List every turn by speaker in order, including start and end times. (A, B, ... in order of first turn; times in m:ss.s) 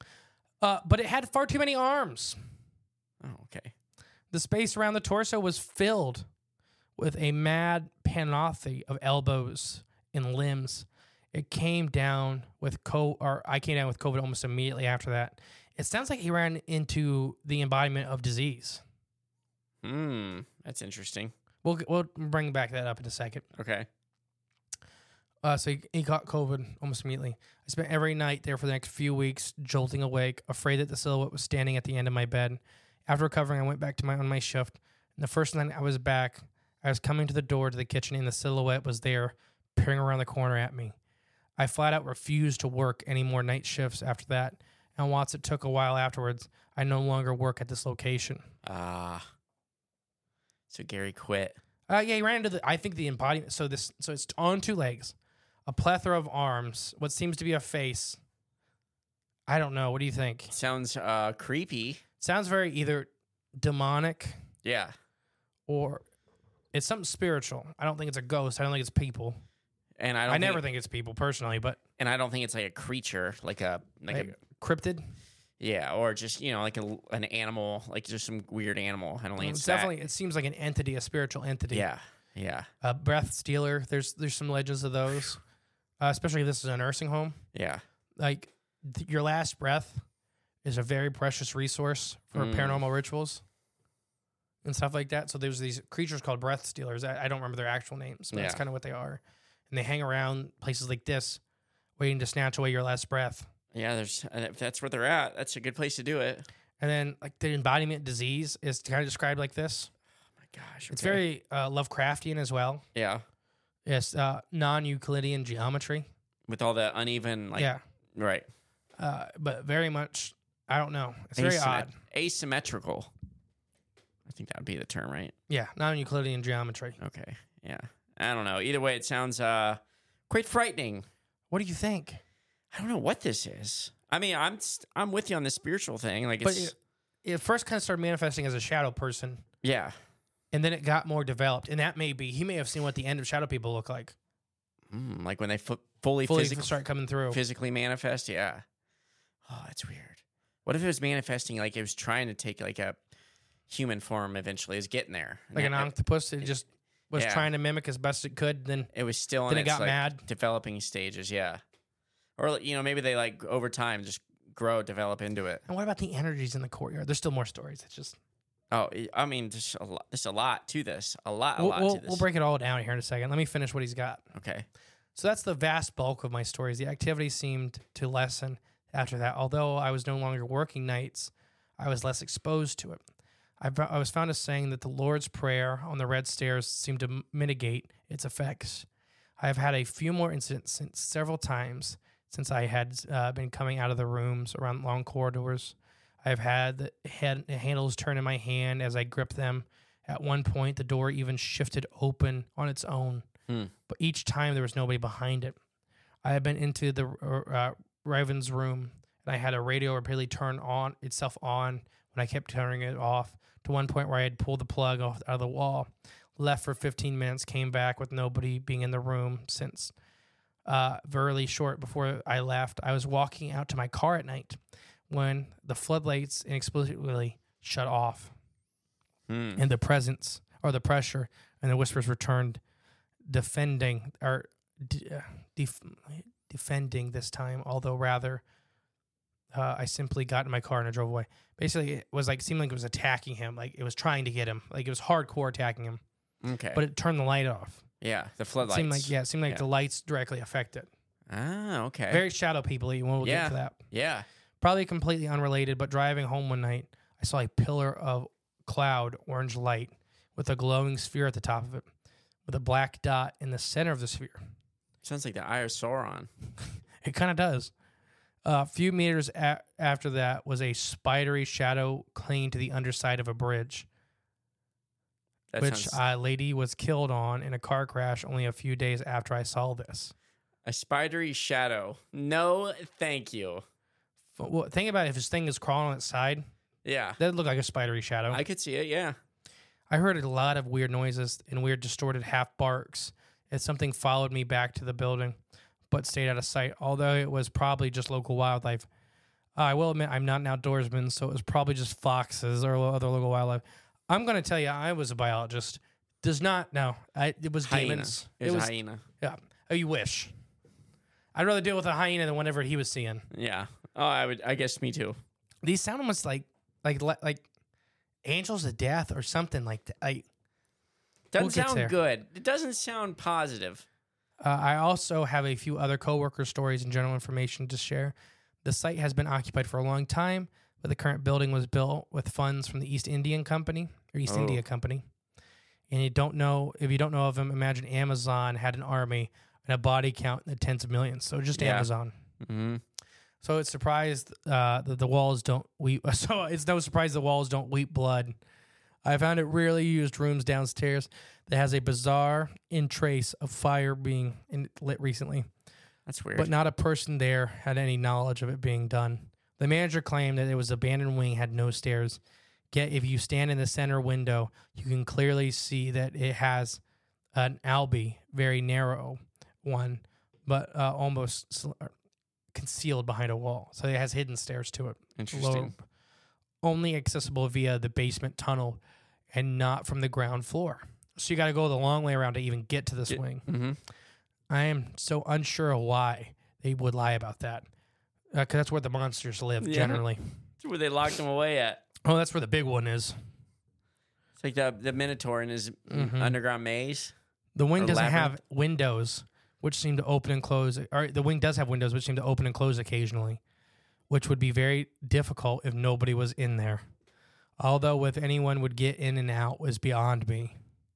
0:00.6-0:02.4 A
0:03.2-0:03.7 B
0:04.3-0:06.2 A
0:07.0-0:18.8 A
0:19.8-0:21.3 B
0:21.6-0:23.4 A
0:23.6-0:23.9 B
0:25.4-0:40.9 A
0:41.6-0:48.4 A
0:48.6-0:49.3 B
0:50.7-0:51.6 B
0:51.9-0:55.1 A
0:55.7-0:58.2 A
0:59.5-1:00.5 A
1:00.5-1:02.0 B
1:02.2-1:04.4 A
1:04.6-1:04.9 B
1:05.7-1:06.0 A
1:06.7-1:09.4 A
1:10.0-1:10.6 B
1:10.3-1:11.8 A
1:12.0-1:14.4 B
1:14.1-1:15.1 A
1:15.6-1:19.9 B
1:19.4-1:21.8 A
1:21.7-1:22.7 B
1:22.8-1:25.4 A
1:26.0-1:27.4 A
1:27.5-1:27.8 B
1:28.2-1:30.0 A
1:30.6-1:33.4 A
1:32.3-1:32.8 B
1:34.6-1:41.4 A
1:38.3-1:38.6 B
1:42.0-1:43.5 A
1:43.7-1:46.4 B
1:46.8-1:49.9 A
1:50.4-1:51.2 B
1:50.9-1:52.8 A
1:53.0-1:53.2 B
1:53.8-1:56.1 A
1:56.5-1:58.4 B
1:57.6-1:57.8 A
1:59.0-2:01.9 A
2:01.4-2:03.1 B
2:04.2-2:05.3 B
2:05.5-2:07.0 A
2:07.0-2:11.1 B
2:11.5-2:12.2 A
2:12.7-2:16.7 B
2:16.4-2:19.4 A
2:19.6-2:20.0 B
2:20.5-2:24.1 A
2:24.9-2:26.8 B
2:26.3-2:27.4 A
2:27.3-2:28.6 B
2:29.5-2:33.0 B
2:33.7-2:36.5 B
2:35.5-2:38.9 A
2:37.1-2:37.5 B
2:38.9-2:41.6 B
2:39.5-2:40.2 A
2:42.4-2:45.6 B
2:45.7-2:48.2 A
2:48.7-2:52.2 B
2:51.6-2:54.2 A
2:54.3-2:54.6 B
2:55.2-3:03.0 A
3:03.6-3:08.8 A
3:09.4-3:23.2 A
3:23.9-3:25.6 A
3:26.2-3:39.9 A
3:40.6-3:44.6 A
3:45.1-3:48.3 A
3:49.3-3:49.6 B
3:49.6-3:52.6 A
3:53.3-3:58.4 A
3:59.5-4:06.0 A
4:06.4-4:06.8 B
4:06.7-4:07.8 A
4:08.0-4:09.6 B
4:08.6-4:10.9 A
4:11.3-4:12.2 B
4:12.1-4:13.8 A
4:13.2-4:14.2 B
4:14.6-4:21.8 A
4:22.5-4:24.4 A
4:25.0-4:26.3 B
4:27.0-4:27.7 A
4:28.4-4:33.8 A
4:35.5-4:36.0 B
4:35.6-4:40.1 A
4:40.6-4:43.6 B
4:44.4-4:46.5 A
4:46.8-4:47.2 B
4:47.2-4:48.4 A
4:48.3-4:49.2 B
4:49.9-4:55.4 A
4:55.9-4:58.9 A
4:59.6-5:10.3 A
5:07.6-5:09.0 B
5:11.3-5:13.2 A
5:13.3-5:15.2 B
5:15.6-5:17.4 A
5:18.2-5:20.2 A
5:21.3-5:23.8 B
5:21.4-5:21.9 A
5:24.4-5:35.0 A
5:34.3-5:34.6 B
5:35.9-5:42.1 A
5:41.6-5:41.9 B
5:42.4-5:42.8 B
5:43.4-5:48.4 A
5:49.0-5:55.5 A
5:56.1-5:56.5 B
5:56.4-6:02.2 A
6:02.7-6:06.8 A
6:07.3-6:11.9 A
6:12.5-6:15.8 A
6:15.2-6:15.7 B
6:16.6-6:18.8 A
6:19.3-6:23.4 A
6:23.1-6:23.8 B
6:24.5-6:27.6 A
6:28.3-6:30.2 A
6:29.6-6:30.0 B
6:30.6-6:31.8 B
6:32.0-6:33.1 A
6:34.4-6:37.1 B
6:35.9-6:36.3 A
6:37.5-6:43.4 A
6:37.8-6:38.4 B
6:44.1-6:46.8 A
6:47.6-6:50.5 A